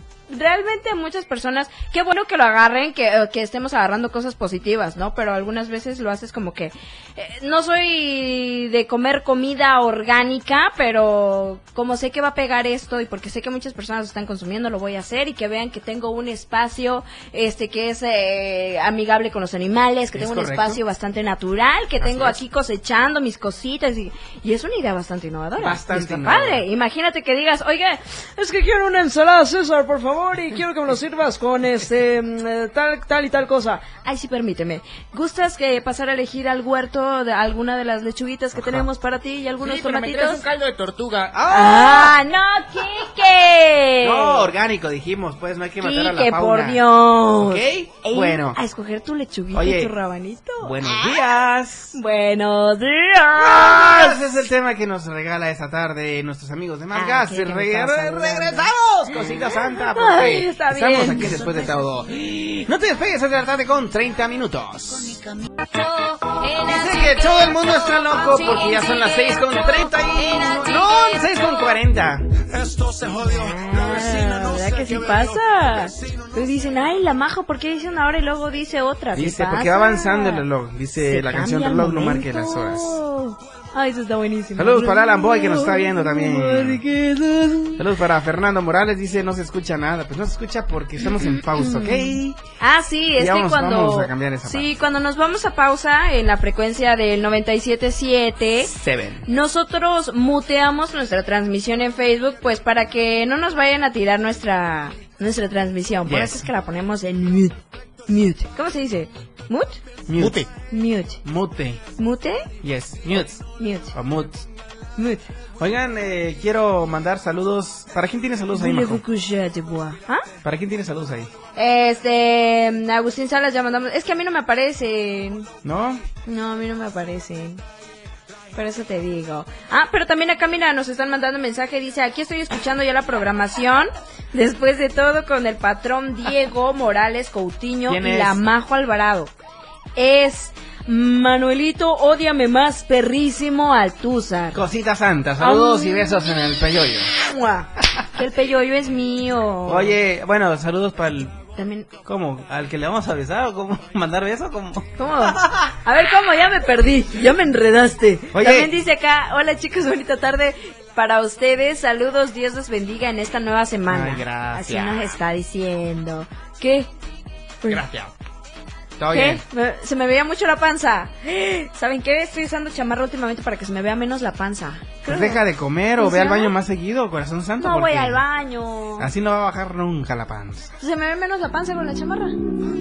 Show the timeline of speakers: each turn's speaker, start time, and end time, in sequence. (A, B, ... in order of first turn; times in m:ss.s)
0:00.3-0:40.4 A
0:20.1-0:20.8 B
0:22.0-0:22.4 B
0:25.6-0:26.6 B
0:38.6-0:38.8 B
0:39.6-0:41.5 C
0:41.3-0:42.1 B
0:41.5-0:44.5 A
0:44.0-0:46.8 B
0:45.8-0:51.4 A
0:47.4-0:48.6 B
0:49.5-0:49.9 B
0:50.6-0:52.0 B
0:51.9-0:54.2 A
0:53.3-1:05.2 B
0:56.9-0:58.7 A
0:59.5-1:01.6 A
1:06.6-1:12.4 B
1:12.5-1:16.2 D
1:13.2-1:20.4 A
1:19.1-1:23.0 B
1:21.0-1:27.8 A
1:24.6-1:26.8 B
1:27.8-1:32.4 B
1:31.1-1:38.7 A
1:33.2-1:34.7 B
1:38.6-1:39.2 B
1:39.2-1:49.8 A
1:46.0-1:46.5 B
1:50.1-1:50.4 B
1:50.2-1:50.5 C
1:50.7-1:51.2 A
1:51.2-1:51.8 B
1:52.0-1:52.5 A
1:52.6-1:54.4 B
1:53.6-1:54.0 A
1:55.0-1:55.3 A
1:55.6-1:59.0 B
1:58.5-2:00.2 A
2:00.4-2:01.3 B
2:01.6-2:05.5 A
2:05.6-2:06.0 B
2:06.2-2:07.6 A
2:08.5-2:19.3 A
2:17.9-2:18.4 B
2:20.0-2:24.6 A
2:24.5-2:27.1 B
2:25.4-2:26.3 A
2:27.2-2:30.0 A
2:29.6-2:31.4 B
2:31.6-2:31.9 A
2:32.0-2:35.7 B
2:35.0-2:46.9 A
2:38.3-2:38.7 B
2:43.9-2:45.1 B
2:47.7-2:48.1 B
2:49.0-2:49.4 B
2:49.1-2:55.4 A
2:55.1-2:58.2 B
2:56.0-2:56.5 A
2:57.6-2:59.1 A
2:59.0-3:00.7 B
3:00.8-3:02.4 A